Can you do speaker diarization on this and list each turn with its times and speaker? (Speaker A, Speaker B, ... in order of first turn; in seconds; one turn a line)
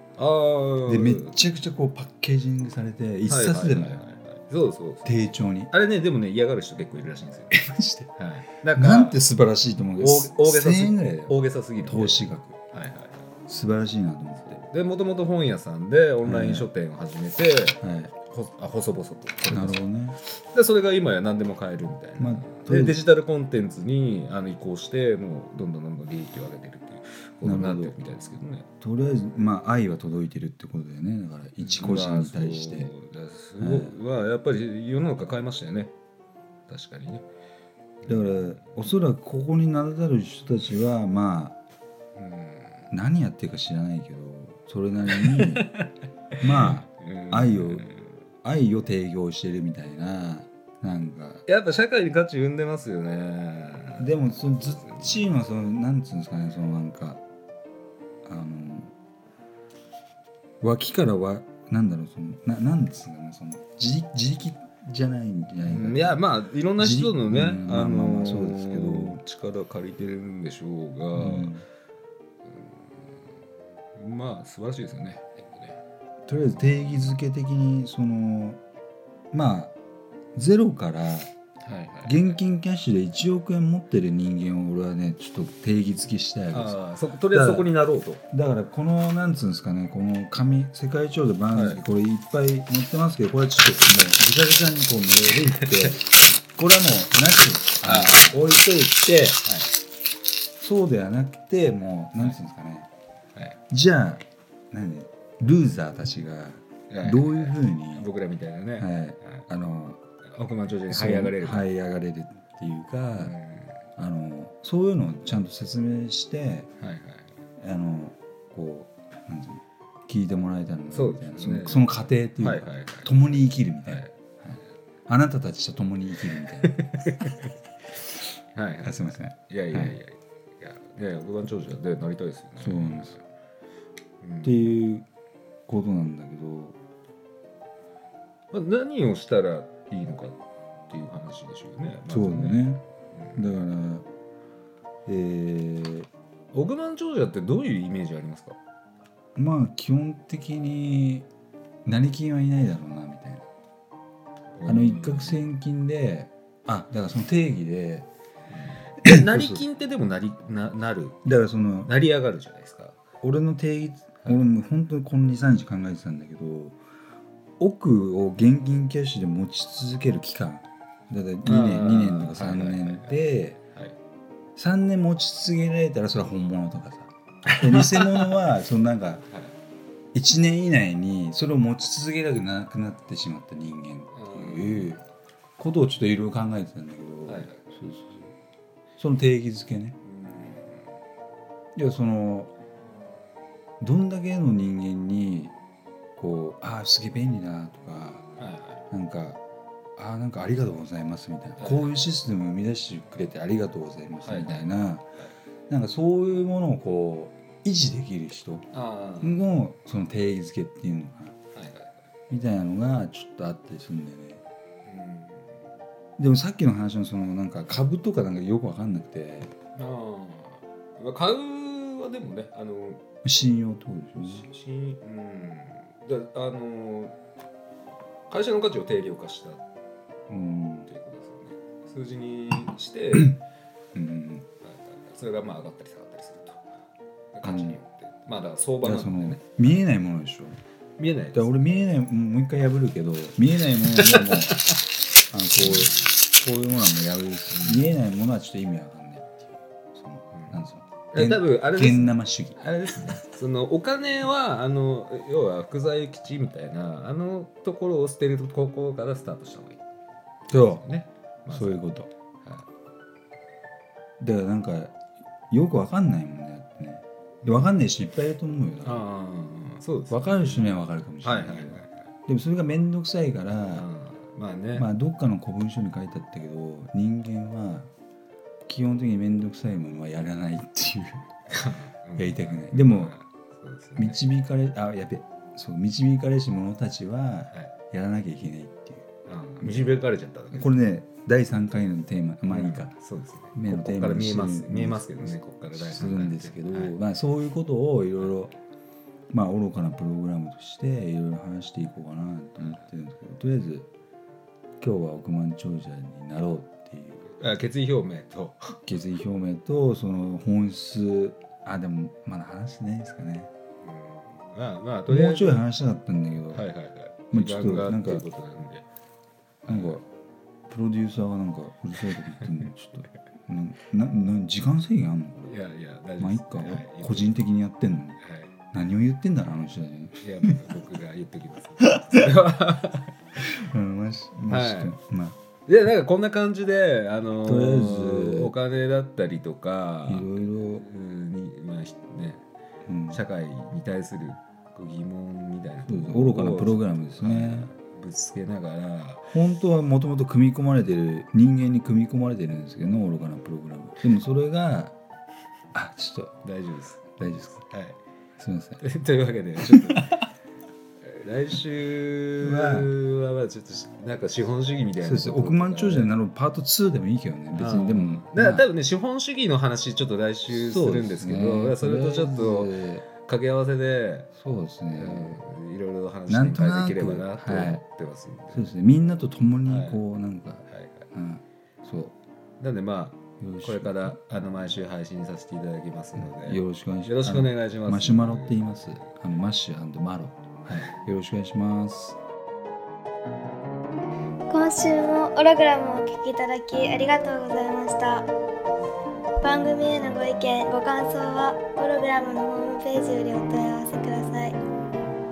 Speaker A: 0.1-1.4
Speaker B: 0.8-4.0
Speaker A: 3.2-7.6
Speaker B: 5.0-5.7
Speaker B: 7.5-8.1
Speaker A: 8.2-9.2
Speaker B: 8.7-12.6
Speaker A: 10.0-13.2
Speaker B: 13.5-14.6
Speaker A: 14.5-28.6
Speaker B: 16.2-16.7
Speaker B: 17.8-18.1
Speaker B: 19.5-20.2
Speaker B: 22.2-23.0
Speaker B: 27.4-27.9
Speaker B: 28.8-32.9
Speaker A: 31.6-35.9
Speaker B: 33.6-33.9
Speaker A: 36.7-37.2
Speaker A: 38.0-38.6
Speaker B: 38.0-41.5
Speaker A: 42.1-42.9
Speaker B: 42.9-45.7
Speaker A: 45.1-45.9
Speaker B: 46.4-47.9
Speaker A: 46.4-48.1
Speaker B: 48.4-51.4
Speaker A: 51.5-55.3
Speaker B: 54.0-57.2
Speaker B: 58.2-58.9
Speaker B: 60.6-66.2
Speaker A: 65.6-71.6
Speaker B: 66.8-69.2
Speaker B: 71.1-71.6
Speaker A: 72.5-73.2
Speaker A: 74.0-75.8
Speaker B: 76.3-78.6
Speaker A: 76.5-77.1
Speaker B: 79.3-79.7
Speaker B: 80.3-81.3
Speaker A: 81.6-82.4
Speaker B: 82.0-86.8
Speaker A: 86.5-88.2
Speaker B: 87.3-87.7
Speaker B: 88.3-96.0
Speaker A: 91.5-91.8
Speaker B: 96.5-99.4
Speaker A: 97.8-98.5
Speaker A: 99.4-99.7
Speaker B: 100.6-102.9
Speaker B: 103.7-108.1
Speaker A: 106.9-109.4
Speaker B: 108.8-110.0
Speaker A: 110.3-111.7
Speaker B: 110.9-113.3
Speaker A: 113.1-113.7
Speaker B: 114.0-116.7
Speaker A: 116.8-117.2
Speaker B: 117.6-126.8
Speaker A: 120.9-123.1
Speaker A: 126.6-127.5
Speaker A: 128.5-133.2
Speaker B: 128.8-129.9
Speaker B: 132.6-133.2
Speaker A: 134.2-134.7
Speaker B: 134.4-135.0
Speaker B: 135.7-136.8
Speaker A: 138.5-140.4
Speaker A: 140.9-143.6
Speaker B: 142.1-142.8
Speaker B: 143.3-144.0
Speaker B: 145.1-146.1
Speaker A: 146.5-148.6
Speaker B: 149.3-151.2
Speaker B: 151.8-153.4
Speaker A: 154.5-155.4
Speaker B: 154.6-158.1
Speaker A: 158.5-161.2
Speaker B: 159.0-159.6
Speaker B: 161.2-161.9
Speaker A: 161.8-163.0
Speaker B: 163.2-166.8
Speaker B: 167.6-173.6
Speaker A: 171.4-173.1
Speaker B: 174.6-179.3
Speaker A: 177.5-178.5
Speaker B: 180.1-185.0
Speaker A: 184.1-185.0
Speaker B: 185.6-188.3
Speaker A: 187.2-187.6
Speaker B: 189.0-190.0
Speaker A: 190.0-190.8
Speaker B: 191.8-192.5
Speaker B: 193.8-195.5
Speaker B: 196.2-198.2
Speaker A: 198.4-198.8
Speaker B: 198.9-199.4
Speaker B: 200.0-205.0
Speaker A: 201.6-201.9
Speaker A: 204.2-204.7
Speaker B: 205.7-208.7
Speaker A: 208.7-209.4
Speaker B: 209.2-211.3
Speaker A: 211.5-211.9
Speaker B: 212.3-214.4
Speaker A: 214.8-215.4
Speaker B: 216.2-219.5
Speaker A: 219.8-223.0
Speaker B: 223.2-224.5
Speaker A: 224.2-227.1
Speaker A: 228.3-229.6
Speaker B: 230.3-230.9
Speaker A: 230.9-233.4
Speaker B: 233.9-234.4
Speaker A: 234.6-236.6
Speaker A: 237.3-239.6
Speaker B: 237.4-237.8
Speaker B: 238.8-240.6
Speaker A: 241.0-241.8
Speaker B: 241.3-244.6
Speaker A: 243.9-244.8
Speaker B: 245.3-252.6
Speaker A: 245.6-246.1
Speaker A: 247.5-247.8
Speaker A: 250.3-250.6
Speaker A: 251.1-259.8
Speaker B: 260.5-260.8
Speaker A: 260.5-261.8
Speaker B: 261.5-262.1
Speaker B: 264.2-264.9
Speaker B: 265.5-269.0
Speaker A: 267.4-267.7
Speaker A: 268.8-271.9
Speaker B: 270.1-273.9
Speaker A: 273.7-274.9
Speaker B: 274.7-277.9
Speaker B: 278.7-281.3
Speaker A: 281.5-284.3
Speaker B: 282.1-283.1
Speaker B: 283.9-289.1
Speaker A: 289.3-290.8
Speaker B: 290.5-292.9
Speaker A: 292.5-297.0
Speaker B: 293.5-298.5
Speaker B: 299.3-303.9
Speaker B: 304.8-307.3
Speaker A: 307.4-308.8
Speaker B: 308.8-313.5
Speaker A: 313.8-315.6
Speaker B: 315.1-316.6
Speaker A: 316.5-318.8
Speaker B: 317.3-318.2
Speaker A: 319.6-320.0
Speaker B: 319.7-320.0
Speaker B: 320.7-325.5
Speaker A: 322.4-322.7
Speaker A: 325.5-327.3
Speaker B: 326.2-328.2
Speaker A: 328.2-328.5
Speaker B: 328.7-330.5
Speaker A: 330.2-333.1
Speaker B: 333.4-335.4
Speaker A: 334.5-335.0
Speaker A: 335.6-342.4
Speaker B: 337.4-338.5
Speaker B: 340.0-340.8
Speaker B: 342.9-343.2
Speaker A: 343.1-349.3
Speaker B: 345.9-347.7
Speaker B: 349.3-354.9
Speaker B: 355.7-356.3
Speaker A: 356.4-358.0
Speaker B: 357.2-357.6
Speaker B: 358.4-358.8
Speaker A: 358.8-360.1
Speaker B: 359.7-360.0
Speaker A: 361.0-366.1
Speaker B: 362.4-362.9
Speaker B: 365.0-368.6
Speaker A: 367.5-374.3
Speaker B: 370.5-373.0
Speaker B: 374.3-375.4
Speaker A: 374.9-378.7
Speaker B: 376.3-377.8
Speaker B: 378.5-382.1
Speaker A: 379.6-380.0
Speaker A: 380.7-381.0
Speaker A: 382.6-389.0
Speaker B: 383.4-384.2
Speaker B: 386.2-392.2
Speaker C: 394.5-398.3
Speaker C: 399.4-404.6